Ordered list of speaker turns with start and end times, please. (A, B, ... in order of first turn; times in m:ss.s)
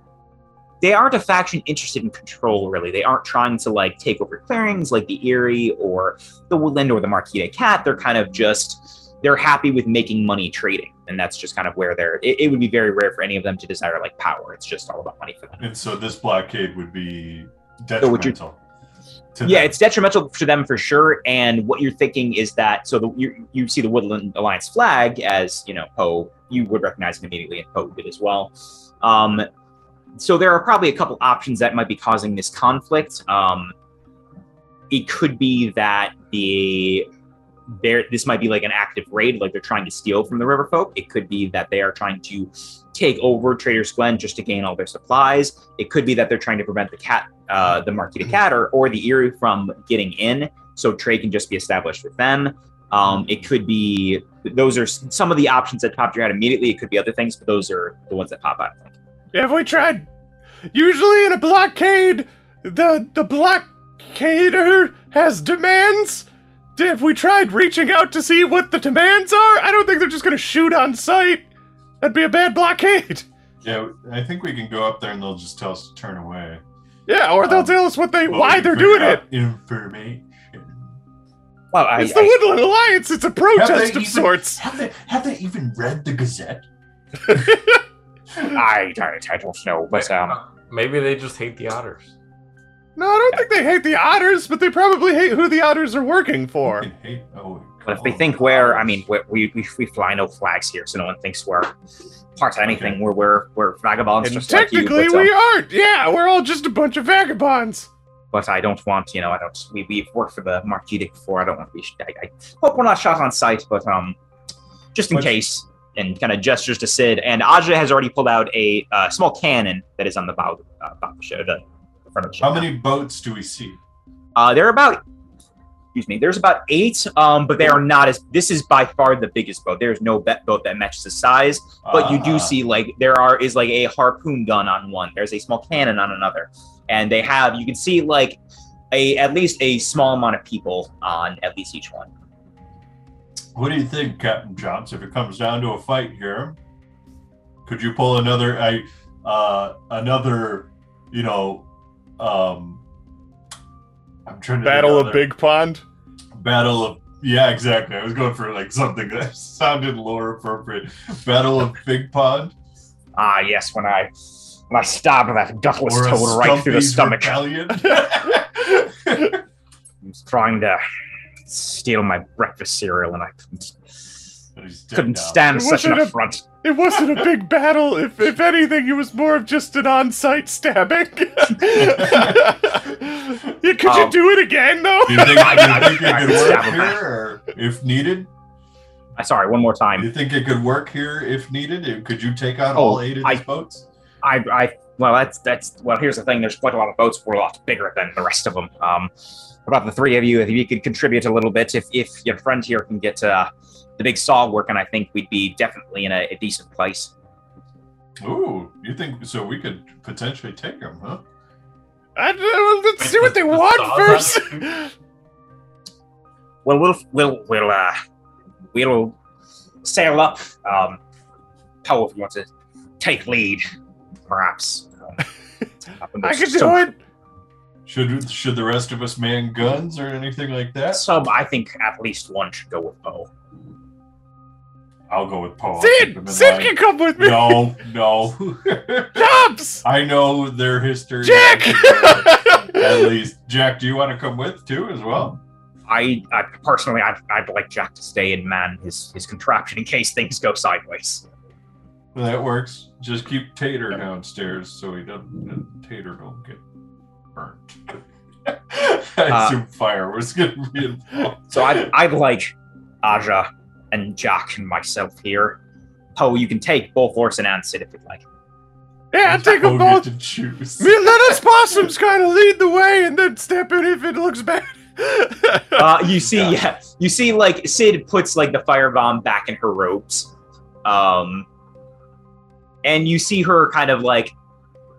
0:00.8-0:15.6 A
0:15.6-0:18.6 B
0:18.0-0:18.4 A
0:19.3-0:19.7 B
0:19.4-0:29.5 A
0:30.2-0:33.8 A
0:34.9-0:37.1 A
0:37.7-0:58.9 A
0:59.3-1:00.1 C
1:00.7-1:11.5 C
1:12.0-1:13.3 C
1:13.6-1:16.6 B
1:17.1-1:19.2 C
1:17.4-1:21.0 B
1:21.7-1:22.4 A
1:22.0-1:24.6 C
1:23.5-1:26.7 B
1:27.3-1:27.8 C
1:28.5-1:30.4 A
1:29.9-1:32.1 D
1:33.0-1:36.9 C
1:36.6-1:39.0 B
1:37.9-1:41.7 A
1:42.4-1:45.3 A
1:42.6-1:43.0 B
1:44.2-1:47.9 C
1:48.3-1:54.2 A
1:54.9-2:02.7 A
2:02.4-2:03.8 B
2:04.4-2:05.0 A
2:05.9-2:18.4 A
2:11.8-2:12.6 B
2:18.9-2:22.1 A
2:23.6-2:26.6 B
2:27.7-2:31.7 B
2:32.2-2:32.8 B
2:34.3-2:35.3 B
2:34.6-2:35.8 C
2:36.3-2:42.5 B
2:43.2-2:47.4 A
2:45.8-2:49.4 B
2:50.0-2:50.8 A
2:51.4-2:53.8 A
2:54.6-2:55.5 B
2:54.9-2:56.4 A
2:55.5-3:06.4 C
2:57.0-2:57.3 B
3:01.7-3:02.9 B
3:03.8-3:04.2 A
3:05.0-3:08.3 B
3:05.1-3:07.0 A
3:09.2-3:10.1 A
3:10.0-3:13.9 B
3:12.8-3:13.4 A
3:14.2-3:19.1 A
3:19.6-3:27.1 A
3:28.2-3:31.2 B
3:32.2-3:34.9 C
3:33.0-3:34.6 D
3:36.6-3:38.0 A
3:38.7-3:39.2 A
3:39.8-3:41.0 A
3:41.8-3:42.5 A
3:43.0-3:43.7 A
3:44.3-3:45.2 A
3:45.9-3:46.9 A
3:46.2-3:47.0 C
3:47.9-3:51.0 B
3:50.9-3:53.3 A
3:55.1-4:05.4 B
3:55.8-3:57.6 C
3:59.2-3:59.8 C
4:01.2-4:03.1 C
4:05.9-4:11.2 A
4:12.1-4:16.6 B
4:17.3-4:21.9 B
4:19.3-4:19.6 A
4:21.5-4:25.6 A
4:26.2-4:28.2 A
4:29.1-4:30.0 C
4:29.2-4:31.4 B
4:30.8-4:36.0 C
4:35.8-4:40.3 A
4:36.3-4:36.6 B
4:40.8-4:41.5 A
4:42.8-4:44.3 A